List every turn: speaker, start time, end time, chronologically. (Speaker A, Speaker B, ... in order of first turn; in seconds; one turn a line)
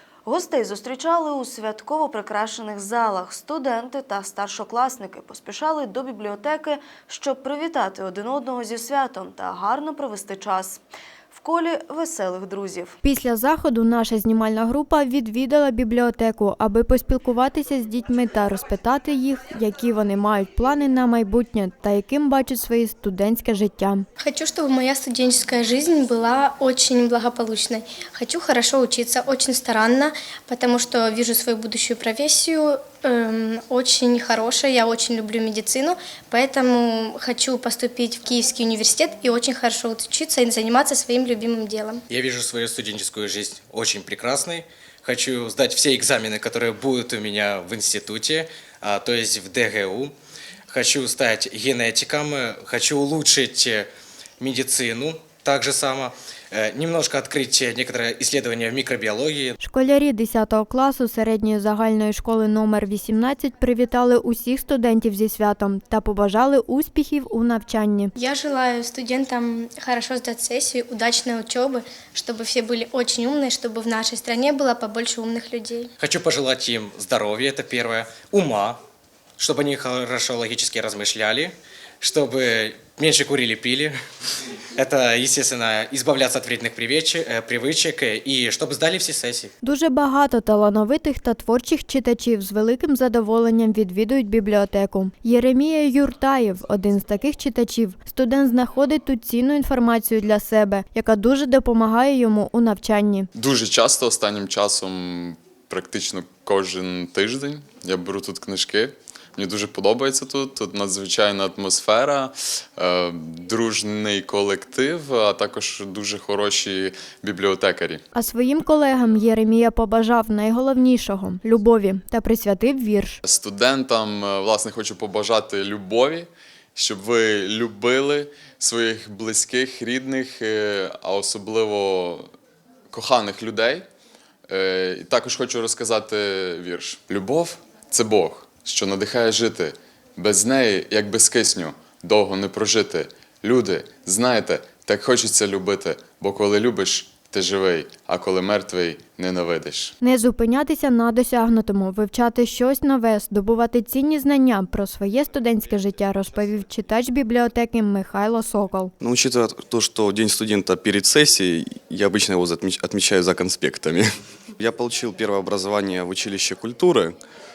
Speaker A: 0.2-13.0
Speaker B: 13.0-24.1
Speaker C: 24.2-42.0
Speaker D: 42.1-50.1
Speaker D: 50.7-53.9
Speaker D: 54.4-59.6
Speaker B: 59.6-68.1
Speaker C: 68.1-75.9
Speaker D: 76.0-78.8
Speaker D: 79.4-84.0
Speaker D: 84.8-89.5
Speaker B: 89.6-103.3
Speaker E: 103.3-118.0
Speaker B: 118.1-123.2
Speaker E: 123.2-132.3
Speaker E: 132.9-133.8
Speaker E: 134.5-149.9
Speaker B: 150.0-158.9
Speaker F: 159.0-167.2